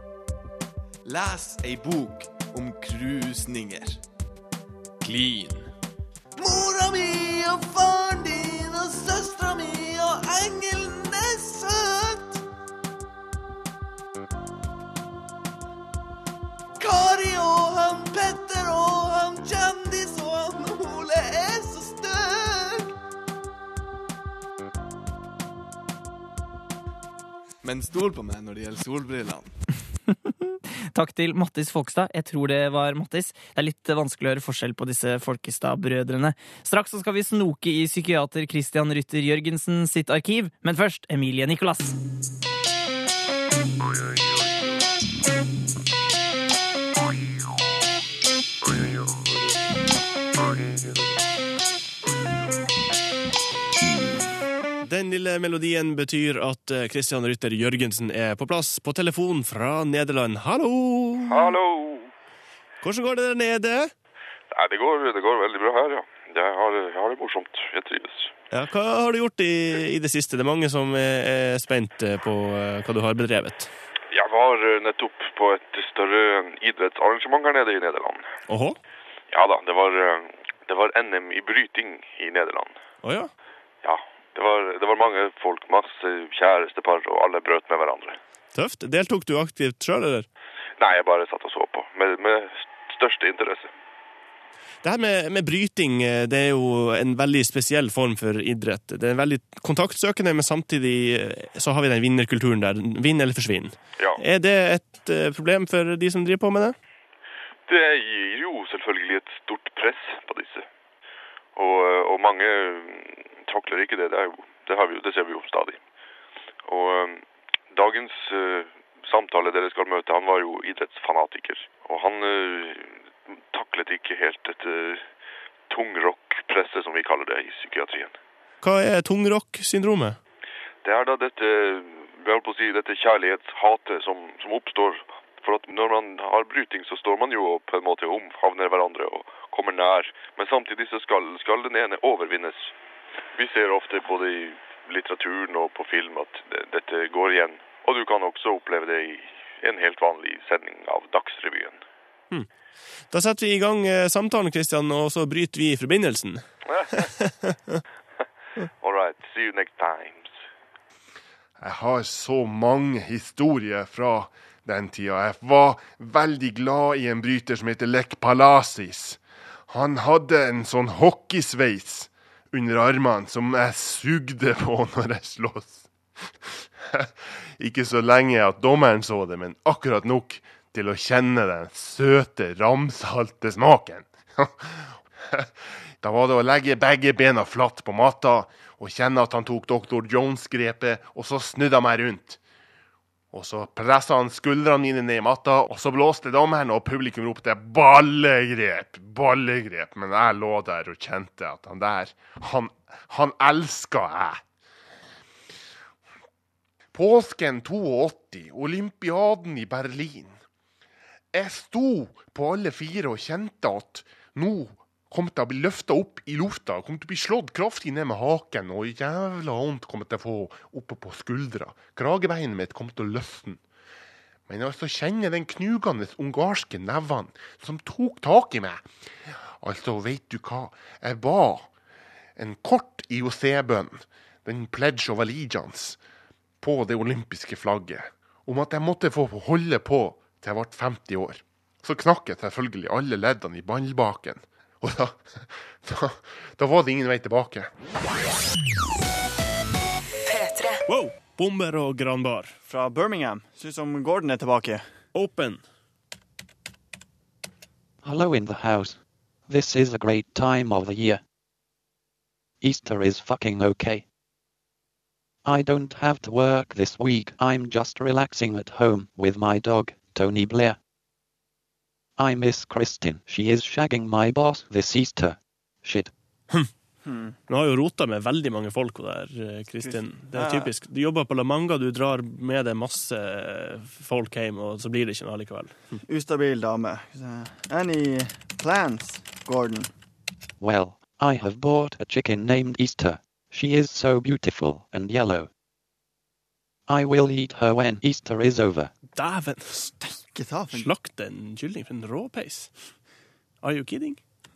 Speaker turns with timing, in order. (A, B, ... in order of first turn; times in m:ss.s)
0:01.0-0:04.0 A
0:05.0-0:05.7 A
0:06.4-0:12.2 A
0:17.9-0:21.1 A
0:27.6-0:29.6 A
0:30.9-0:42.0 B
0:54.8-1:01.6 C
1:01.3-1:02.1 D
1:02.8-1:03.9 C
1:04.5-1:08.3 D
1:08.5-1:13.7 C
1:14.1-1:18.3 D
1:18.5-1:18.8 C
1:19.3-1:22.8 D
1:23.0-1:23.3 C
1:23.8-1:28.2 D
1:28.5-1:30.3 C
1:30.8-1:33.7 D
1:34.8-1:46.8 C
1:47.7-1:50.7 D
1:51.6-1:55.8 D
1:56.7-2:05.1 D
2:05.7-2:08.2 D
2:08.6-2:10.2 C
2:10.8-2:22.8 D
2:23.4-2:31.8 D
2:33.1-2:37.8 C
2:36.7-2:37.0 D
2:38.8-2:40.4 D
2:41.6-2:55.9 E
2:56.8-3:05.5 E
3:06.0-3:12.4 E
3:13.3-3:24.4 E
3:26.9-3:30.4 E
3:31.3-3:43.6 E
3:44.5-3:48.9 E
3:49.6-3:51.7 E
3:52.4-3:56.0 E
3:56.6-4:05.2 E
4:05.8-4:07.7 E
4:10.9-4:12.6 C
4:12.7-4:14.9 F
4:15.1-4:15.6 C
4:18.0-4:19.0 G
4:19.5-4:21.2 G
4:22.6-4:24.0 G
4:25.4-4:30.8 G
4:32.2-4:36.1 G
4:37.1-4:37.3 F
4:37.5-4:45.8 C
4:39.8-4:40.7 F
4:46.0-4:49.9 F
4:50.6-4:55.5 G
4:56.9-4:58.9 G
4:59.1-5:00.0 C
5:00.3-5:00.9 F
5:00.7-5:02.7 C
5:03.6-5:04.2 C